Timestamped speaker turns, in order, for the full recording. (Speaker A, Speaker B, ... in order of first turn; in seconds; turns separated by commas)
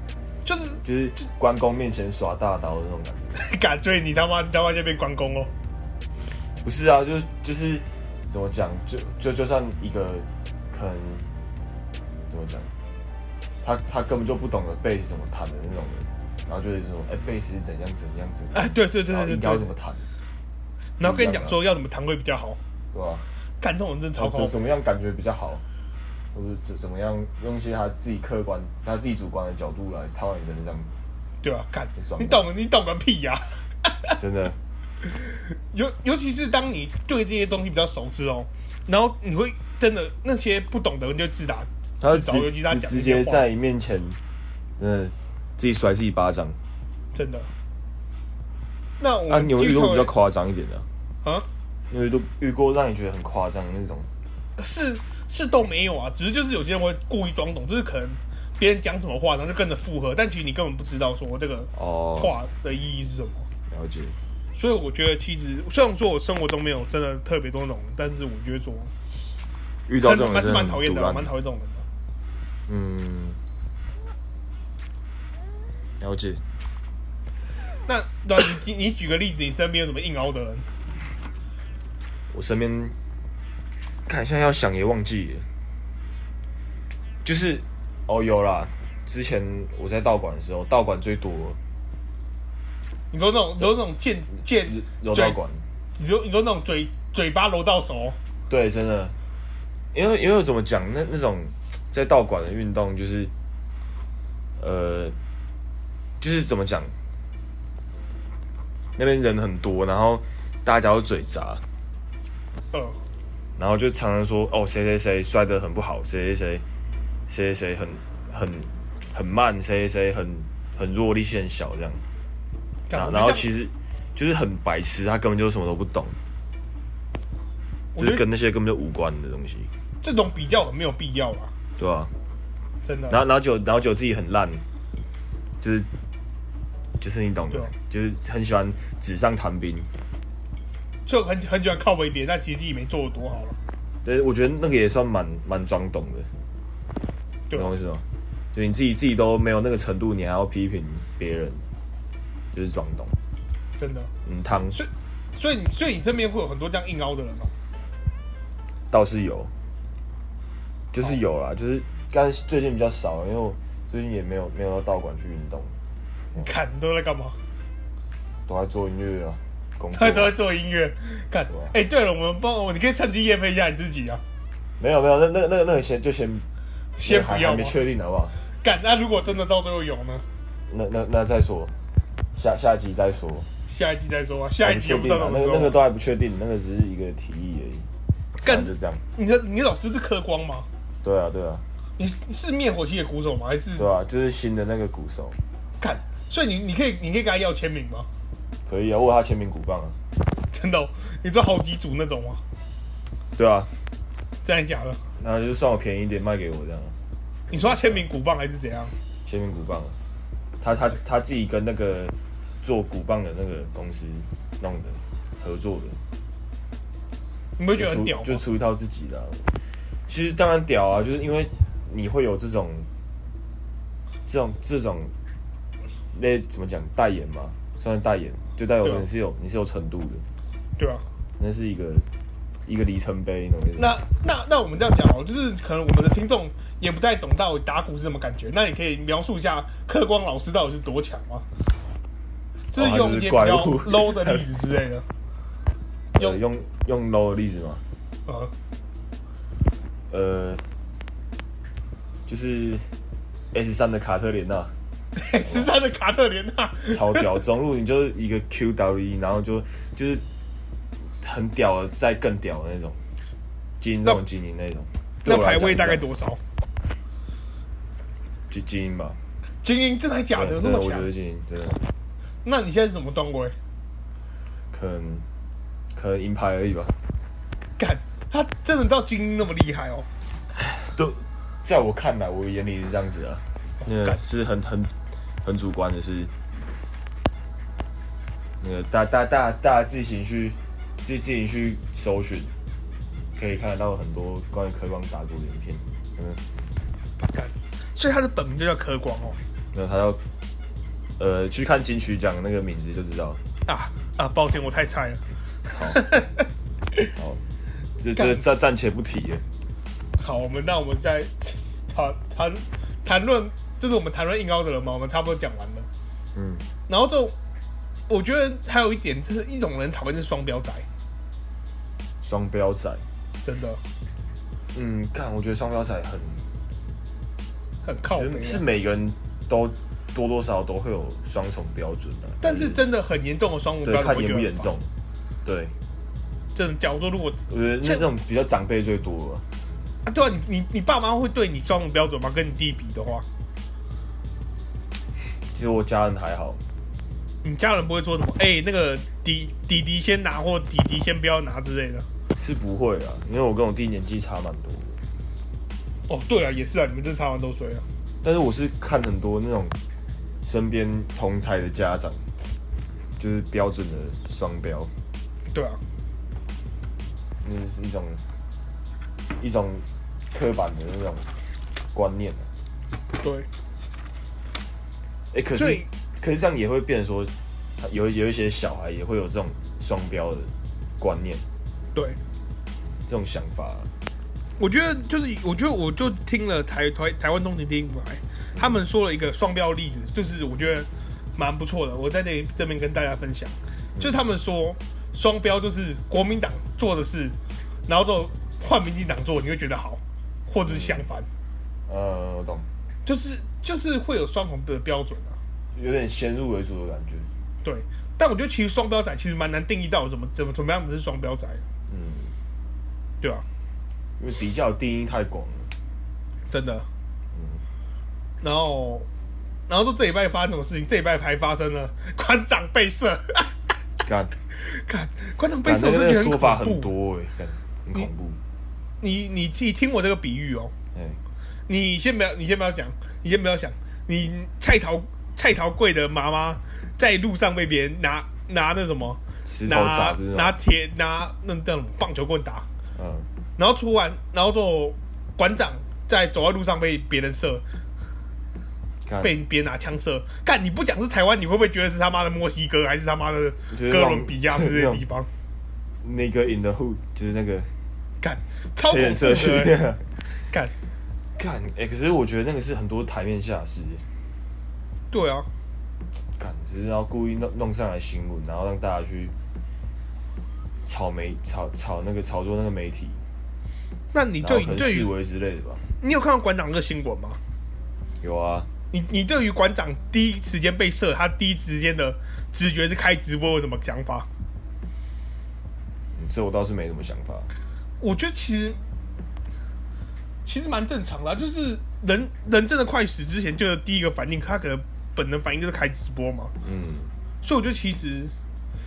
Speaker A: 0.4-0.8, Speaker B: 0.8-3.4, Speaker A: 3.3-5.5, Speaker B: 6.6-11.2, Speaker B: 12.3-12.7, Speaker B: 13.6-20.0, Speaker A: 18.5-19.7, Speaker A: 21.0-22.6, Speaker B: 21.0-21.6, Speaker B: 22.9-23.2, Speaker A: 23.6-24.6, Speaker B: 24.1-25.6, Speaker B: 26.3-30.9, Speaker A: 31.4-34.1, Speaker B: 31.9-32.4, Speaker B: 34.2-34.6, Speaker A: 35.0-43.5, Speaker B: 42.0-44.2, Speaker B: 44.8-46.6, Speaker A: 47.1-47.5, Speaker A: 49.0-50.1, Speaker B: 49.3-50.9, Speaker B: 51.9-54.1, Speaker A: 54.6-63.5, Speaker B: 61.7-62.3, Speaker B: 63.7-64.2, Speaker A: 64.5-68.9, Speaker B: 69.9-71.3, Speaker A: 70.0-71.8, Speaker B: 72.7-73.4, Speaker B: 76.0-76.4, Speaker A: 77.9-80.7, Speaker B: 82.3-83.0, Speaker B: 84.1-85.5, Speaker B: 87.2-91.6, Speaker A: 93.1-95.4, Speaker B: 94.3-95.6, Speaker A: 96.0-98.2, Speaker B: 98.5-99.1, Speaker B: 99.9-103.3, Speaker B: 104.6-105.2, Speaker B: 106.2-106.9, Speaker B: 109.0-111.6, Speaker A: 112.7-113.0, Speaker B: 113.6-116.6, Speaker B: 117.3-122.0, Speaker A: 122.9-123.5, Speaker B: 122.9-126.2, Speaker A: 128.0-128.2, Speaker B: 128.0-129.7, Speaker A: 130.0-131.5, Speaker B: 131.8-132.1, Speaker A: 132.8-133.2, Speaker B: 133.1-134.6, Speaker B: 135.6-135.9, Speaker B: 137.0-139.9, Speaker A: 141.1-143.6, Speaker B: 144.0-146.3, Speaker B: 147.5-151.6, Speaker B: 152.5-153.2, Speaker A: 153.8-154.1, Speaker B: 154.2-154.8, Speaker A: 154.7-157.5, Speaker B: 158.9-159.5, Speaker B: 160.9-165.7, Speaker A: 166.3-167.3, Speaker B: 168.4-170.3, Speaker A: 169.9-174.2, Speaker B: 174.8-176.4, Speaker A: 177.0-177.8, Speaker B: 177.0-178.3, Speaker A: 178.6-180.2, Speaker B: 180.7-181.7, Speaker B: 182.3-183.5, Speaker A: 183.7-185.8, Speaker B: 184.6-187.9, Speaker A: 188.4-190.7, Speaker B: 188.4-189.0, Speaker B: 191.0-191.6, Speaker A: 192.0-193.9, Speaker B: 193.8-195.4, Speaker A: 195.8-198.1, Speaker B: 198.7-200.0, Speaker A: 200.5-202.4, Speaker B: 203.3-203.7, Speaker A: 204.4-205.0, Speaker B: 205.2-206.9, Speaker B: 207.5-208.0, Speaker A: 207.5-208.9, Speaker B: 209.2-209.9, Speaker B: 210.6-216.0, Speaker A: 217.6-218.4, Speaker B: 217.7-219.4, Speaker B: 220.1-222.9, Speaker B: 224.2-225.1, Speaker B: 226.1-230.2, Speaker A: 230.8-231.0, Speaker B: 231.4-232.1, Speaker B: 232.7-233.9, Speaker A: 233.8-241.4, Speaker A: 242.7-245.1, Speaker B: 242.7-244.4, Speaker B: 246.1-247.8, Speaker A: 248.2-248.5, Speaker B: 250.1-250.6, Speaker B: 252.2-252.8, Speaker B: 253.5-254.7, Speaker A: 255.2-257.3, Speaker B: 255.4-255.7, Speaker B: 256.9-260.2, Speaker B: 261.2-263.0, Speaker B: 263.8-266.0, Speaker A: 265.2-266.4, Speaker B: 268.5-269.2, Speaker A: 269.6-271.1, Speaker B: 270.3-271.9, Speaker A: 272.4-273.5, Speaker B: 274.7-275.2, Speaker B: 275.9-276.9, Speaker A: 277.8-280.1, Speaker B: 280.5-286.3, Speaker A: 283.8-284.2, Speaker B: 288.6-292.5, Speaker B: 293.4-296.4, Speaker A: 297.2-299.4, Speaker B: 299.7-300.2, Speaker B: 301.2-303.4, Speaker A: 303.7-306.4, Speaker B: 305.7-306.0, Speaker B: 307.1-307.4, Speaker B: 308.0-309.4, Speaker A: 308.1-308.4, Speaker A: 310.2-315.9, Speaker B: 316.3-316.7, Speaker A: 316.9-317.3, Speaker A: 318.1-320.9, Speaker B: 322.2-323.0, Speaker A: 323.4-323.8, Speaker B: 324.7-326.4, Speaker A: 327.8-328.6, Speaker B: 328.1-332.8, Speaker A: 332.4-334.7, Speaker B: 333.8-334.9, Speaker B: 335.4-335.7, Speaker A: 336.5-338.1, Speaker B: 337.5-339.4, Speaker A: 340.0-343.2, Speaker B: 345.5-346.6, Speaker A: 347.4-352.1, Speaker B: 352.4-355.0, Speaker A: 356.1-357.8, Speaker B: 358.2-359.8, Speaker B: 360.4-362.2, Speaker B: 363.2-364.9, Speaker A: 365.5-365.8, Speaker B: 367.4-368.2, Speaker B: 369.4-371.3, Speaker B: 371.9-372.5, Speaker A: 373.2-373.5, Speaker B: 375.3-381.4, Speaker A: 375.6-375.9, Speaker B: 383.1-383.9, Speaker A: 384.6-397.4, Speaker B: 388.5-388.8, Speaker B: 393.9-394.2, Speaker A: 397.9-401.3, Speaker B: 400.6-401.1, Speaker B: 401.9-402.7, Speaker A: 403.0-405.4, Speaker B: 405.7-407.3, Speaker A: 407.6-411.6, Speaker B: 411.9-412.3, Speaker B: 414.2-415.7, Speaker A: 416.5-416.9, Speaker B: 417.3-417.6, Speaker A: 418.4-419.1, Speaker A: 419.7-423.5, Speaker B: 424.0-424.3, Speaker A: 424.6-426.9, Speaker B: 425.6-428.4, Speaker A: 429.0-430.7, Speaker A: 431.7-442.6, Speaker B: 439.4-440.6, Speaker B: 442.9-443.3, Speaker A: 443.6-447.6, Speaker B: 449.1-449.3, Speaker A: 449.2-455.3, Speaker B: 453.7-455.0, Speaker B: 456.0-457.7, Speaker A: 458.2-459.8, Speaker B: 458.9-460.0, Speaker B: 461.4-464.0, Speaker A: 465.1-465.5, Speaker B: 466.4-469.3, Speaker B: 470.8-473.2, Speaker A: 474.1-475.1, Speaker B: 474.4-475.8, Speaker A: 476.0-477.4, Speaker B: 478.2-478.7, Speaker A: 478.9-484.3, Speaker B: 486.1-487.5, Speaker A: 488.0-488.8, Speaker A: 490.4-496.5, Speaker B: 496.6-497.1, Speaker A: 497.4-498.3